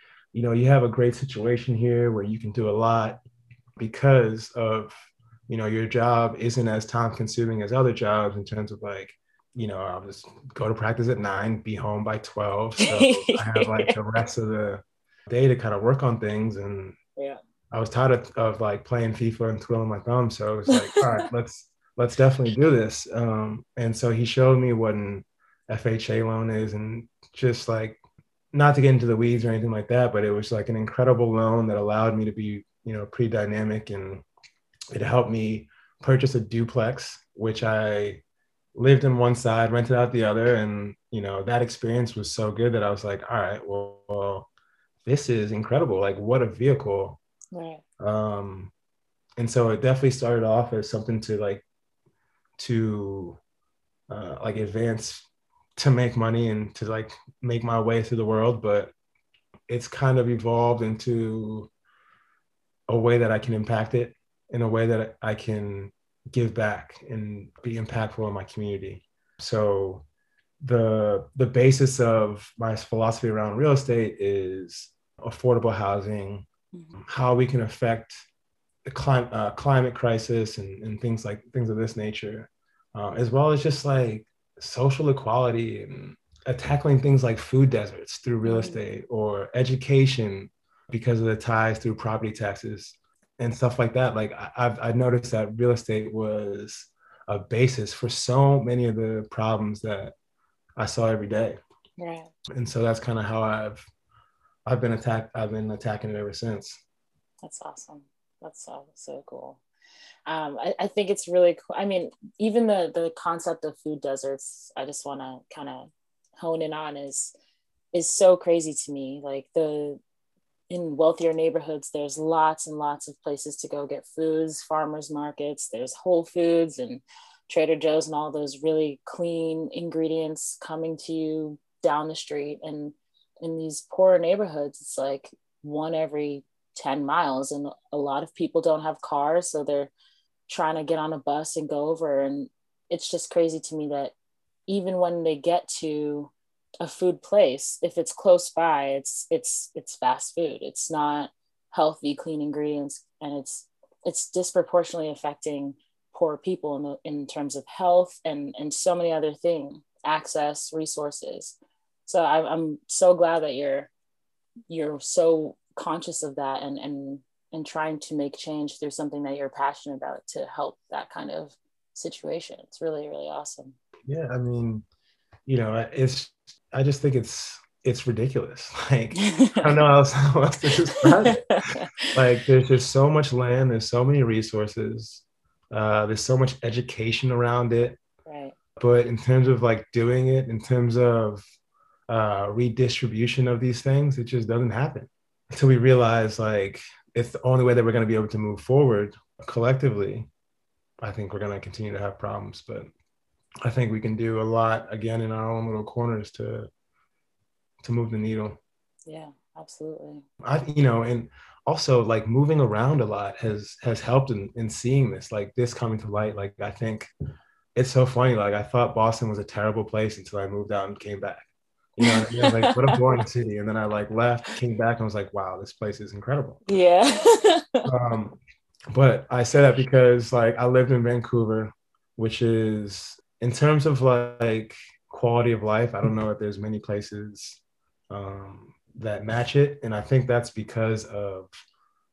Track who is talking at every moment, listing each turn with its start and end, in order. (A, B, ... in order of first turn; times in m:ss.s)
0:00.3-0:03.2 A
0:03.8-0:04.9 A
0:05.5-0:17.0 A
0:12.8-0:14.0 B
0:17.7-0:28.0 A
0:20.7-0:21.2 B
0:28.5-0:34.2 A
0:34.9-0:38.2 A
0:38.8-0:44.5 A
0:45.0-0:47.2 A
0:47.5-0:47.8 B
0:48.0-0:48.7 A
0:49.4-0:51.6 A
0:52.6-0:53.4 A
0:54.1-0:58.9 A
0:59.7-1:01.7 A
1:02.9-1:10.0 A
1:10.6-1:18.2 A
1:16.7-1:17.0 B
1:18.8-1:40.1 A
1:28.4-1:28.8 B
1:40.8-1:41.6 A
1:42.0-1:42.3 B
1:42.5-1:43.9 A
1:44.7-1:46.8 A
1:47.4-1:49.6 B
1:50.3-1:57.3 B
1:57.9-2:00.0 B
2:00.7-2:19.9 B
2:20.5-2:24.1 B
2:24.7-2:43.9 B
2:44.7-2:53.8 B
2:54.1-2:54.8 A
2:55.5-3:01.5 A
2:59.2-2:59.7 B
3:01.2-3:02.1 B
3:02.1-3:08.0 A
3:08.3-3:08.6 B
3:08.8-3:11.4 A
3:12.1-3:20.3 A
3:21.0-3:22.9 A
3:23.6-3:26.7 A
3:27.8-3:28.6 A
3:29.1-3:30.2 B
3:30.4-3:37.1 A
3:37.8-3:46.6 A
3:42.0-3:43.0 B
3:46.7-3:47.9 B
3:47.9-3:48.4 A
3:48.9-4:01.5 A